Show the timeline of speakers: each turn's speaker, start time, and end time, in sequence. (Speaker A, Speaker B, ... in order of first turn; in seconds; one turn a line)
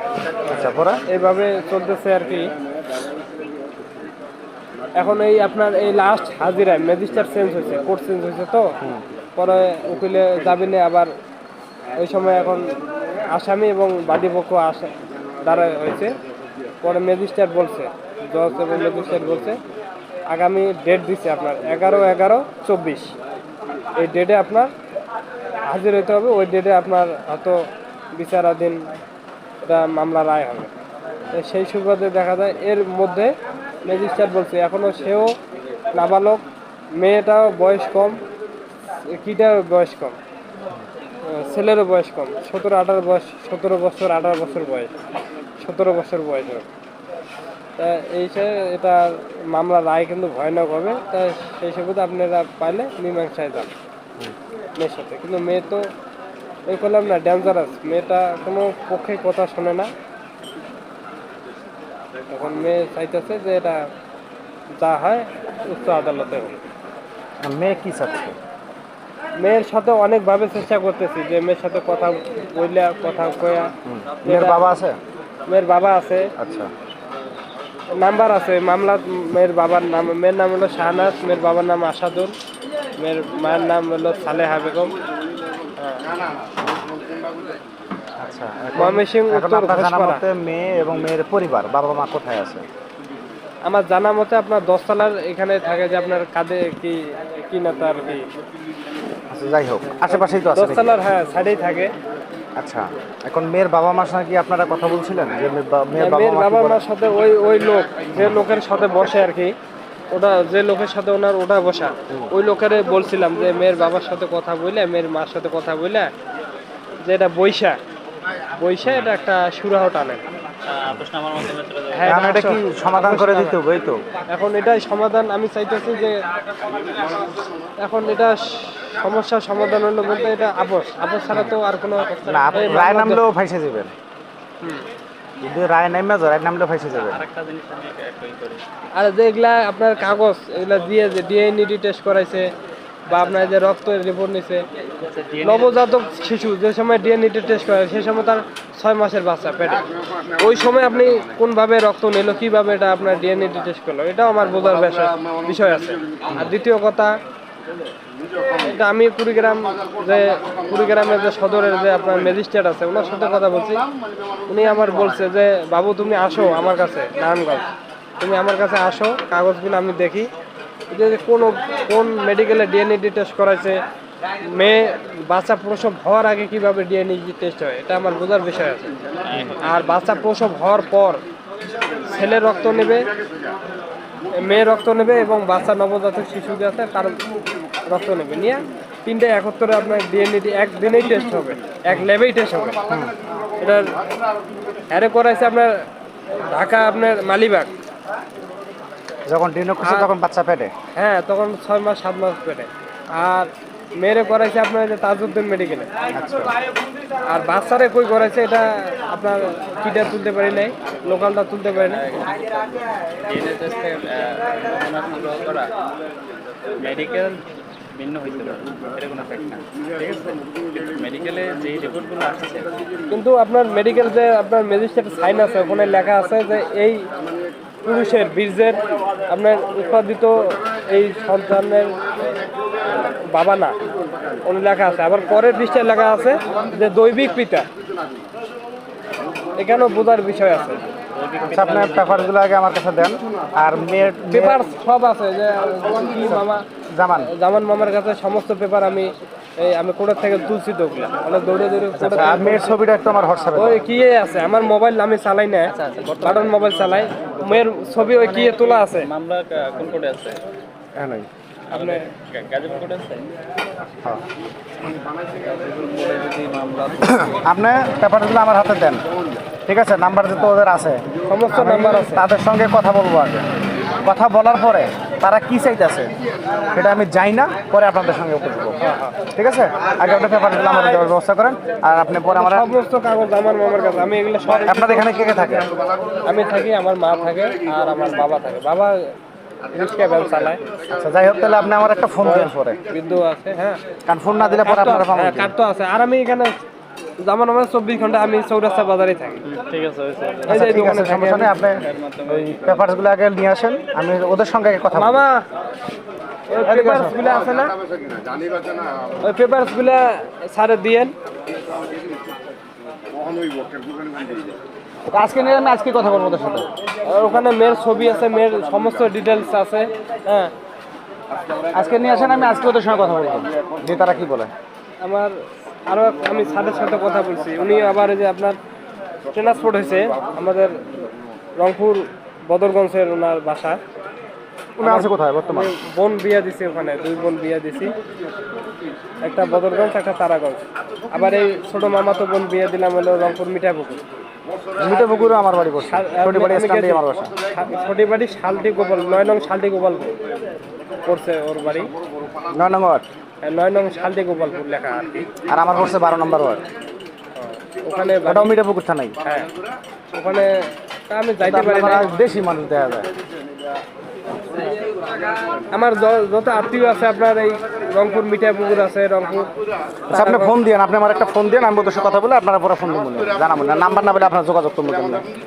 Speaker A: 0.5-1.0
Speaker B: 0.5-2.5
Speaker B: 5.0-8.8
Speaker B: 9.4-11.1
Speaker B: 12.0-12.7
Speaker B: 13.3-16.1
Speaker B: 16.8-19.6
Speaker B: 20.3-23.1
Speaker B: 24.0-24.7
Speaker B: 25.6-28.9
Speaker B: 29.6-30.7
Speaker B: 31.3-33.3
Speaker B: 33.9-35.4
Speaker B: 35.9-36.4
Speaker B: 37.0-38.2
Speaker B: 39.0-40.2
Speaker B: 41.2-45.0
Speaker B: 45.6-46.6
Speaker B: 47.8-53.7
Speaker B: 54.8-55.9
Speaker B: 56.7-59.9
Speaker B: 62.3-63.9
Speaker B: 64.7-66.5
Speaker A: 67.4-68.4
Speaker B: 69.4-73.7
Speaker A: 73.9-75.0
Speaker B: 74.2-74.6
Speaker B: 75.5-76.3
Speaker A: 76.4-76.7
Speaker B: 78.0-82.3
Speaker B: 83.0-85.0
Speaker B: 85.8-86.0
Speaker A: 86.6-87.0
Speaker A: 88.2-92.7
Speaker B: 88.8-90.2
Speaker B: 93.7-98.2
Speaker A: 99.3-101.0
Speaker B: 100.6-101.9
Speaker A: 102.6-106.8
Speaker B: 106.0-109.5
Speaker A: 108.2-108.4
Speaker B: 110.1-116.1
Speaker B: 117.0-117.8
Speaker B: 118.6-120.2
Speaker C: 120.7-122.2
Speaker B: 121.9-123.6
Speaker A: 122.1-124.0
Speaker B: 124.3-126.2
Speaker B: 127.8-133.2
Speaker A: 132.2-133.9
Speaker A: 135.4-137.2
Speaker C: 136.9-138.6
Speaker B: 138.9-142.5
Speaker B: 143.1-144.7
Speaker C: 145.0-145.9
Speaker B: 145.4-149.8
Speaker B: 150.4-157.2
Speaker A: 156.3-156.5
Speaker B: 158.6-163.9
Speaker B: 164.5-167.7
Speaker B: 168.2-170.3
Speaker B: 170.9-173.8
Speaker B: 174.4-179.0
Speaker C: 179.2-179.8
Speaker B: 179.6-181.2
Speaker B: 182.0-183.1
Speaker B: 184.3-187.2
Speaker B: 187.9-192.8
Speaker A: 192.9-193.2
Speaker B: 193.6-193.9
Speaker B: 194.9-195.8
Speaker B: 196.5-197.7
Speaker A: 199.3-200.7
Speaker B: 200.9-205.9
Speaker A: 206.1-206.6
Speaker B: 207.2-212.0
Speaker C: 211.7-215.7
Speaker C: 216.8-217.4
Speaker C: 217.9-222.7
Speaker B: 223.1-227.1
Speaker B: 227.8-232.0
Speaker B: 232.9-233.8
Speaker B: 234.4-237.7
Speaker B: 239.6-240.8
Speaker C: 241.2-242.3
Speaker A: 241.5-244.6
Speaker B: 244.3-246.7
Speaker A: 246.2-247.3
Speaker B: 247.2-252.7
Speaker A: 251.9-253.8
Speaker B: 253.6-259.1
Speaker C: 255.7-260.4
Speaker A: 261.0-261.3
Speaker B: 261.7-262.1
Speaker C: 261.7-263.3
Speaker C: 264.8-267.4
Speaker A: 267.2-269.0
Speaker A: 269.7-276.1
Speaker B: 271.3-272.2
Speaker A: 276.7-282.7
Speaker B: 278.8-279.2
Speaker B: 282.3-285.3
Speaker A: 284.5-285.7
Speaker B: 286.2-289.0
Speaker B: 289.7-290.6
Speaker A: 290.9-292.8
Speaker B: 292.2-293.8
Speaker A: 294.1-295.5
Speaker B: 294.4-296.6
Speaker B: 297.2-299.4
Speaker C: 299.7-301.0
Speaker B: 300.5-301.6
Speaker A: 300.5-305.3
Speaker C: 301.6-302.8
Speaker B: 304.9-305.4
Speaker B: 306.5-307.8
Speaker A: 306.6-307.2
Speaker B: 309.2-311.1
Speaker A: 315.1-316.7
Speaker B: 317.0-320.5
Speaker A: 321.7-324.5
Speaker B: 325.0-328.6
Speaker B: 329.3-330.8
Speaker B: 331.6-333.8
Speaker B: 334.8-337.9
Speaker A: 334.8-335.7
Speaker B: 339.2-344.0
Speaker A: 344.8-347.4
Speaker B: 345.9-350.1
Speaker B: 351.1-351.9
Speaker A: 352.5-353.1
Speaker B: 353.4-355.3
Speaker A: 355.5-356.6
Speaker B: 357.4-358.5
Speaker A: 358.3-359.2
Speaker B: 359.2-359.5
Speaker B: 360.1-362.1
Speaker A: 361.4-363.1
Speaker B: 364.5-364.8
Speaker B: 365.7-369.5
Speaker B: 370.1-370.6
Speaker A: 370.1-375.3